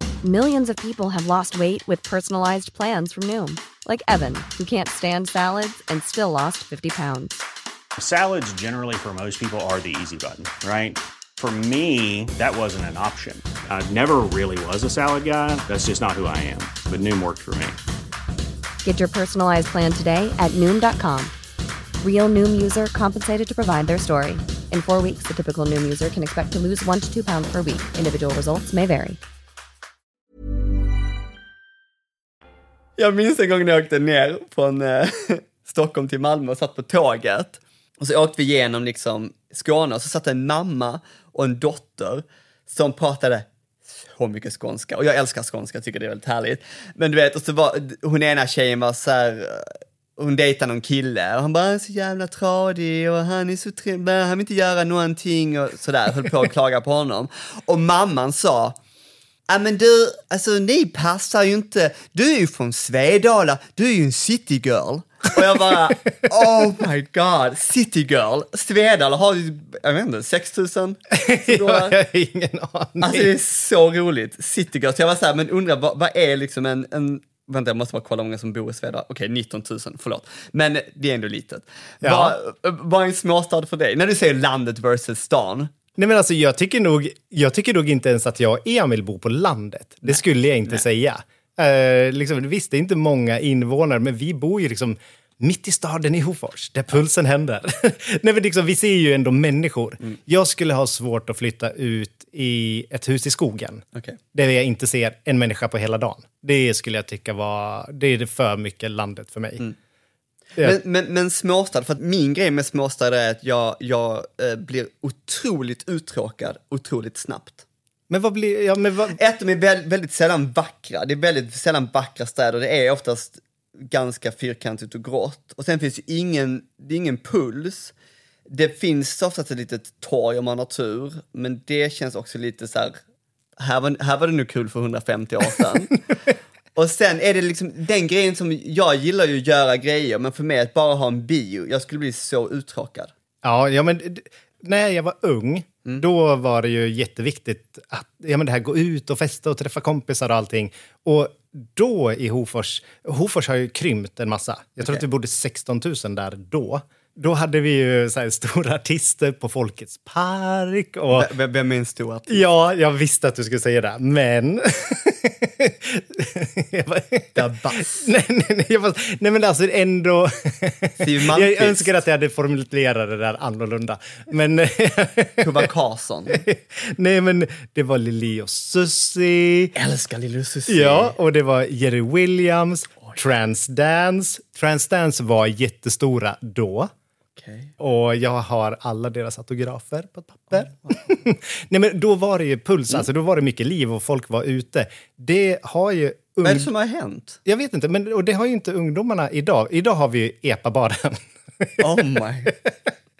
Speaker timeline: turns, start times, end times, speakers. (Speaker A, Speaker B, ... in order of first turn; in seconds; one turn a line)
Speaker A: 0.2-7.4
Speaker B: 8.0-17.8
Speaker A: 18.8-21.3
Speaker A: 22.0-29.2
Speaker C: 33.0-58.8
Speaker C: 59.5-72.0
Speaker D: 71.1-73.3
Speaker C: 73.0-85.7
Speaker D: 82.0-82.3
Speaker D: 86.0-109.7
Speaker C: 90.0-90.8
Speaker C: 110.6-117.6
Speaker D: 118.1-119.2
Speaker C: 119.1-127.9
Speaker C: 128.5-133.0
Speaker C: 133.6-136.0
Speaker C: 136.7-143.1
Speaker D: 143.4-161.3
Speaker C: 161.1-162.4
Speaker D: 162.3-175.7
Speaker C: 167.3-168.1
Speaker C: 171.0-172.0
Speaker C: 175.4-176.4
Speaker D: 176.3-179.7
Speaker C: 179.7-181.1
Speaker D: 180.7-186.9
Speaker C: 187.4-187.7
Speaker D: 187.8-196.7
Speaker C: 196.4-197.4
Speaker D: 197.4-202.7
Speaker C: 201.8-202.5